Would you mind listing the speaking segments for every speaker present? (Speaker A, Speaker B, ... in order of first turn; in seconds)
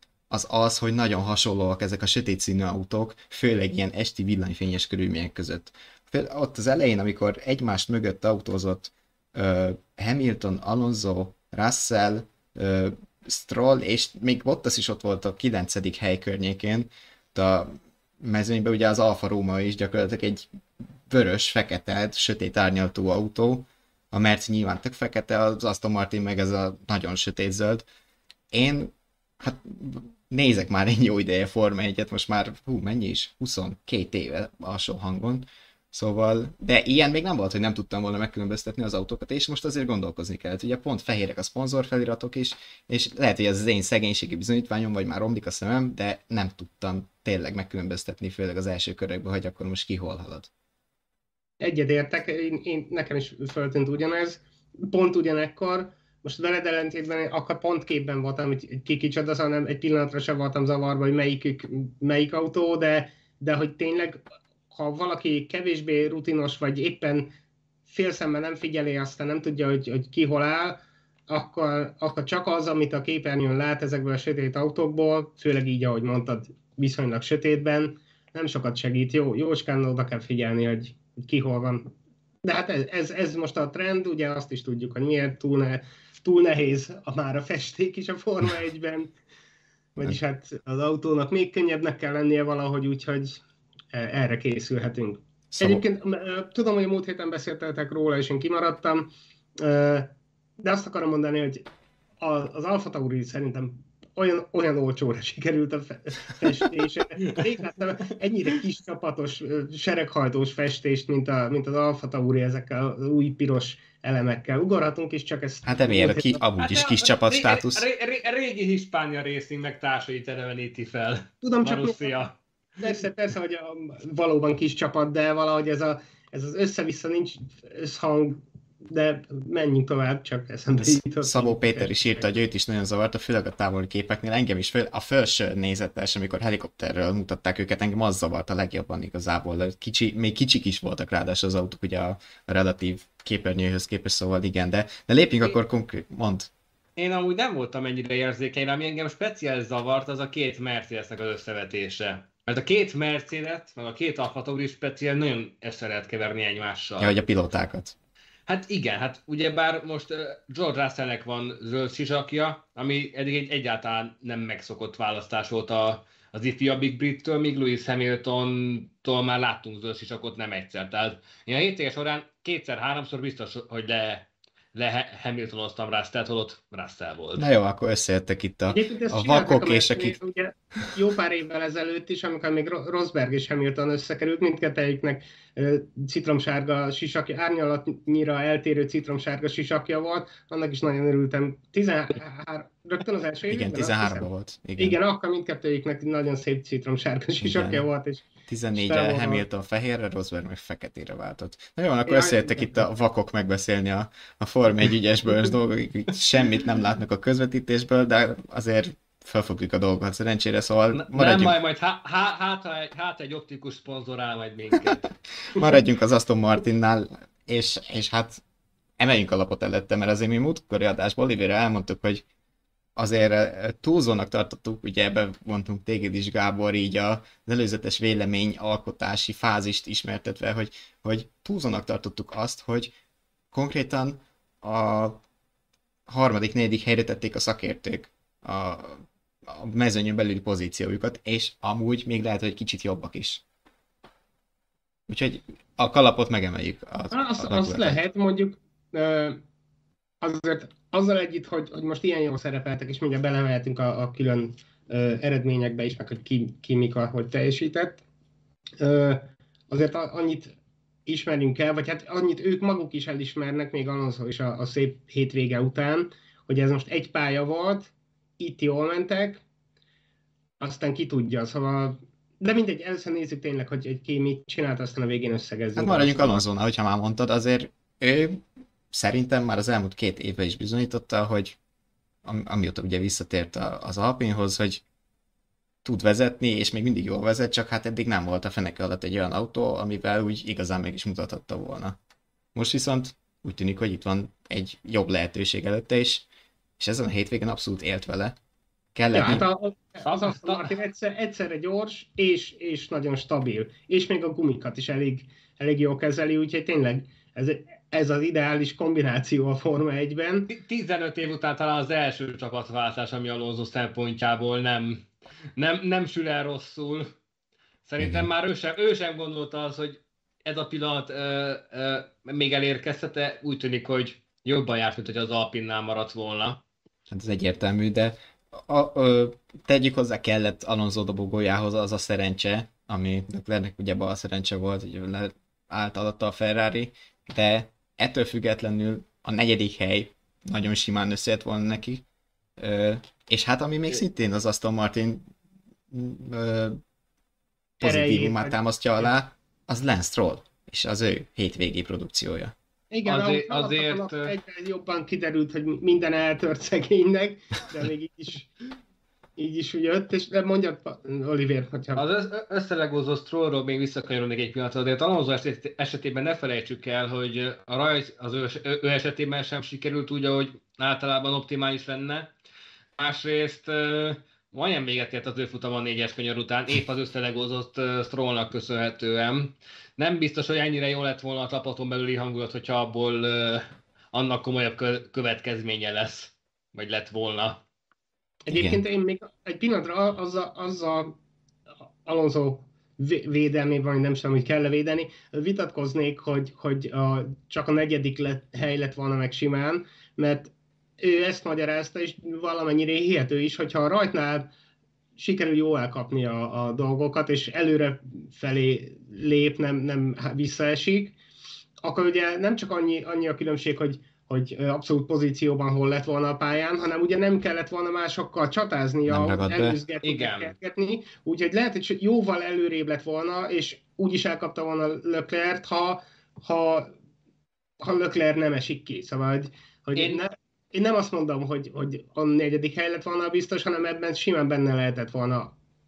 Speaker A: 0.3-20.5, 21.1-27.9, 28.5-50.5, 95.5-95.8, 115.7-117.8, 131.2-146.5, 157.0-157.9, 177.4-180.2, 193.5-195.0, 197.4-197.8, 198.5-211.6, 215.5-218.4, 219.0-222.2, 223.0-232.9, 233.5-235.2, 236.1-243.4, 245.1-248.0, 275.8-281.6, 282.2-284.8, 285.8-292.0, 292.6-296.3, 296.8-298.4, 298.9-299.5, 318.0-318.3, 327.1-342.0, 342.6-345.3, 345.9-346.8, 347.8-352.5, 388.5-388.8, 419.1-419.8
Speaker B: 51.6-67.3, 67.9-81.9, 82.4-89.1, 90.0-93.4, 93.9-101.7, 102.2-116.4, 121.4-122.2, 122.8-132.3, 178.7-199.4, 202.1-202.9, 247.1-249.4, 250.2-258.0, 258.8-260.5, 261.1-269.4, 270.6-276.5, 299.1-310.5, 347.8-349.0, 352.9-358.5, 359.4-362.0, 388.5-391.2, 392.1-404.5, 405.2-411.2, 411.8-426.9, 427.8-435.6
Speaker C: 116.6-122.3, 147.0-157.2, 158.5-177.5, 210.9-215.1, 300.1-300.7, 310.5-317.1, 317.9-326.6, 353.1-354.4, 362.0-372.3, 373.0-387.6, 420.0-420.5, 430.0-430.2